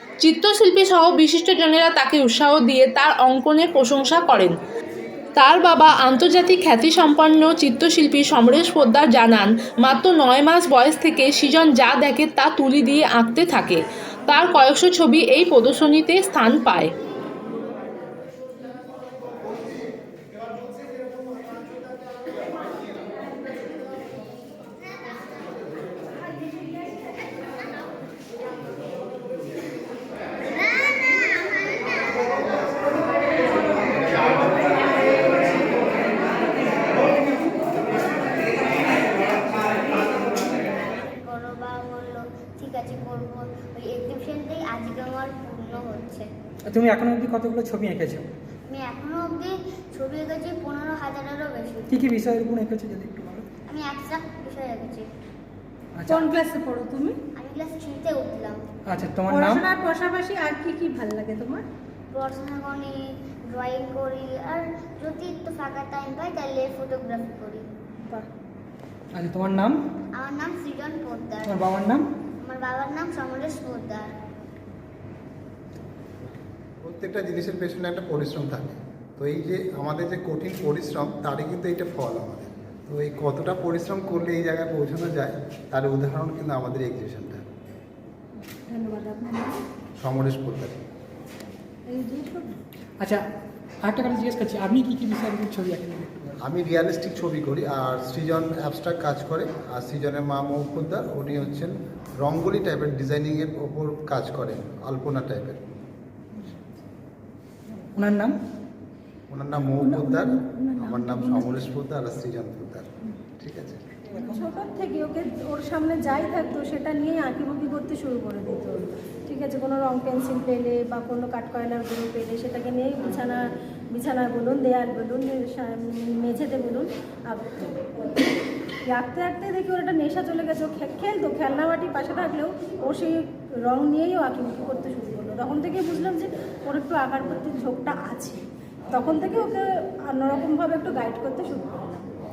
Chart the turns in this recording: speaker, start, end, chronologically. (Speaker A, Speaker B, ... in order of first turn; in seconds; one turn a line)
Speaker A: 0.2-4.5
Speaker A: 5.4-16.9
Speaker B: 30.6-32.5
Speaker B: 39.5-39.7
Speaker B: 40.4-46.3
Speaker C: 46.7-48.3
Speaker B: 48.7-51.9
Speaker C: 51.9-53.5
Speaker B: 53.7-55.1
Speaker C: 56.0-56.4
Speaker D: 56.1-57.2
Speaker B: 57.4-58.6
Speaker C: 58.9-59.7
Speaker D: 59.3-61.6
Speaker B: 62.1-67.7
Speaker C: 69.1-69.8
Speaker B: 70.2-71.6
Speaker C: 71.5-72.1
Speaker B: 72.4-74.1
Speaker E: 76.8-87.5
Speaker D: 88.7-89.6
Speaker E: 90.0-90.8
Speaker D: 91.9-92.6
Speaker C: 93.8-96.3
Speaker E: 96.4-105.8
Speaker C: 107.8-108.3
Speaker E: 109.3-113.8
Speaker C: 109.8-111.4
Speaker C: 114.1-114.5
Speaker D: 114.2-128.0
Speaker D: 128.9-142.1